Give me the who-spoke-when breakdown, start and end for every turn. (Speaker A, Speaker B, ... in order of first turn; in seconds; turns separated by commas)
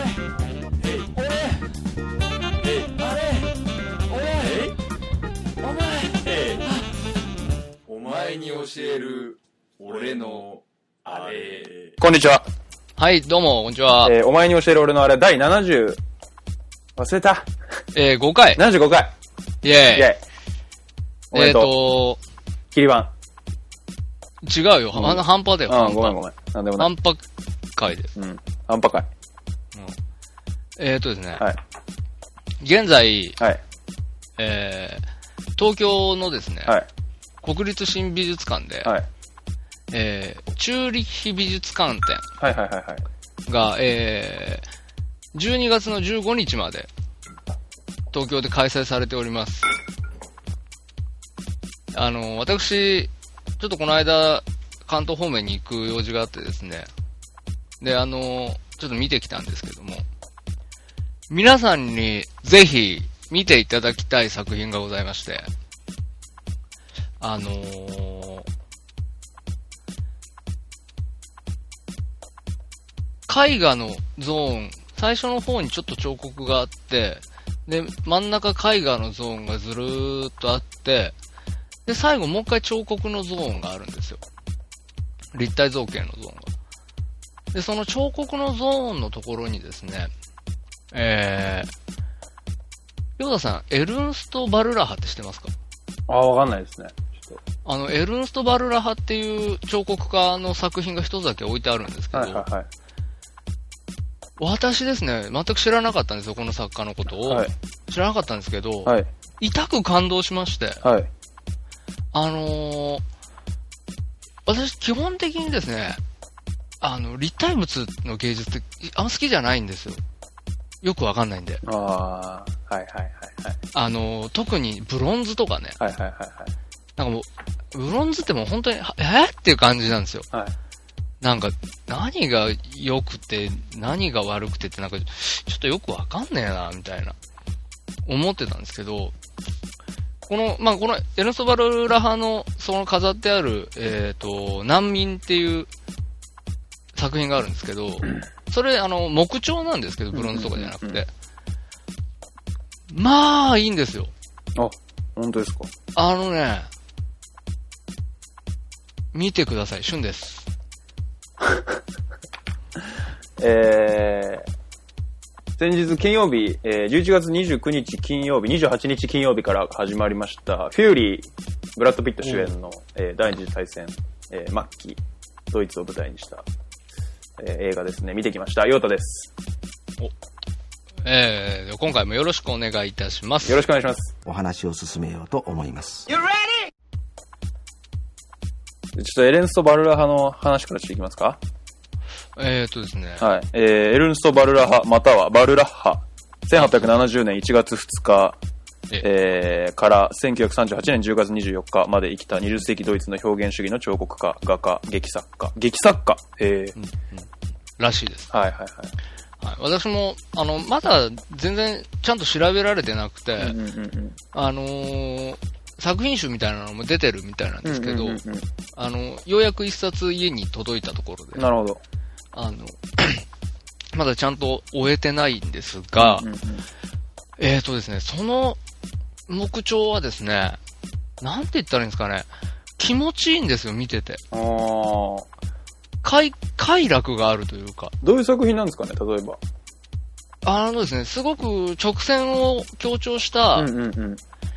Speaker A: 0.8-1.2, Speaker A: 2.6-3.1, Speaker A: 4.2-4.8, Speaker A: 6.1-6.7, Speaker A: 7.8-11.9, Speaker B: 12.0-12.5, Speaker C: 13.0-14.1, Speaker B: 14.0-16.0, Speaker B: 16.9-17.5, Speaker C: 17.9-18.6, Speaker B: 18.6-19.1, Speaker C: 19.6-20.1, Speaker B: 19.9-20.2, Speaker B: 21.3-21.7, Speaker C: 21.3-22.2, Speaker B: 22.7-23.1, Speaker C: 24.4-26.2, Speaker B: 24.9-26.9, Speaker C: 26.8-28.1, Speaker B: 28.1-29.1, Speaker C: 30.8-31.4, Speaker C: 32.6-33.4, Speaker C: 34.4-35.0, Speaker C: 35.6-36.8, Speaker C: 37.4-38.9, Speaker C: 39.9-42.2, Speaker B: 42.4-43.1, Speaker C: 43.5-44.6, Speaker C: 45.3-46.9, Speaker C: 48.1-49.7, Speaker C: 51.9-56.9, Speaker C: 57.8-60.0, Speaker C: 61.3-65.5, Speaker C: 67.2-68.5, Speaker C: 73.3-81.2, Speaker C: 81.8-84.2, Speaker C: 85.3-86.5, Speaker C: 87.5-90.1, Speaker C: 90.9-91.7, Speaker C: 93.2-95.5, Speaker B: 96.1-97.4, Speaker C: 97.6-102.4, Speaker B: 102.1-102.7, Speaker C: 104.4-110.9, Speaker B: 107.2-107.5, Speaker B: 110.8-111.1, Speaker C: 112.1-113.0, Speaker C: 114.5-116.0, Speaker C: 116.8-120.0, Speaker C: 120.8-121.6, Speaker B: 121.6-123.6, Speaker C: 123.7-125.8, Speaker B: 125.8-126.5, Speaker C: 127.0-130.3, Speaker C: 131.2-137.2, Speaker C: 138.1-139.1, Speaker C: 140.3-145.7, Speaker C: 146.9-151.1, Speaker B: 150.1-151.0, Speaker C: 152.9-154.1, Speaker B: 154.6-155.7, Speaker C: 155.9-156.7, Speaker C: 159.1-160.5, Speaker B: 161.4-161.8, Speaker B: 163.4-164.5, Speaker B: 165.6-176.4, Speaker B: 177.4-179.3, Speaker C: 181.0-183.6, Speaker B: 183.4-184.1, Speaker D: 184.2-186.2, Speaker B: 188.9-191.4, Speaker C: 192.3-193.3, Speaker B: 193.2-198.4, Speaker C: 196.6-196.9, Speaker B: 199.0-206.7, Speaker C: 206.8-208.3, Speaker B: 208.3-209.0, Speaker C: 209.4-213.6, Speaker B: 213.4-214.2, Speaker C: 214.3-218.2, Speaker B: 217.6-218.5, Speaker C: 218.7-221.5, Speaker B: 221.3-221.8, Speaker C: 222.3-223.2, Speaker C: 223.9-226.2, Speaker B: 225.9-226.7, Speaker C: 227.4-228.6, Speaker C: 229.3-230.6, Speaker C: 231.2-234.2, Speaker B: 234.3-235.3, Speaker C: 236.0-237.9, Speaker B: 238.0-239.4, Speaker C: 240.4-243.7, Speaker B: 243.6-244.2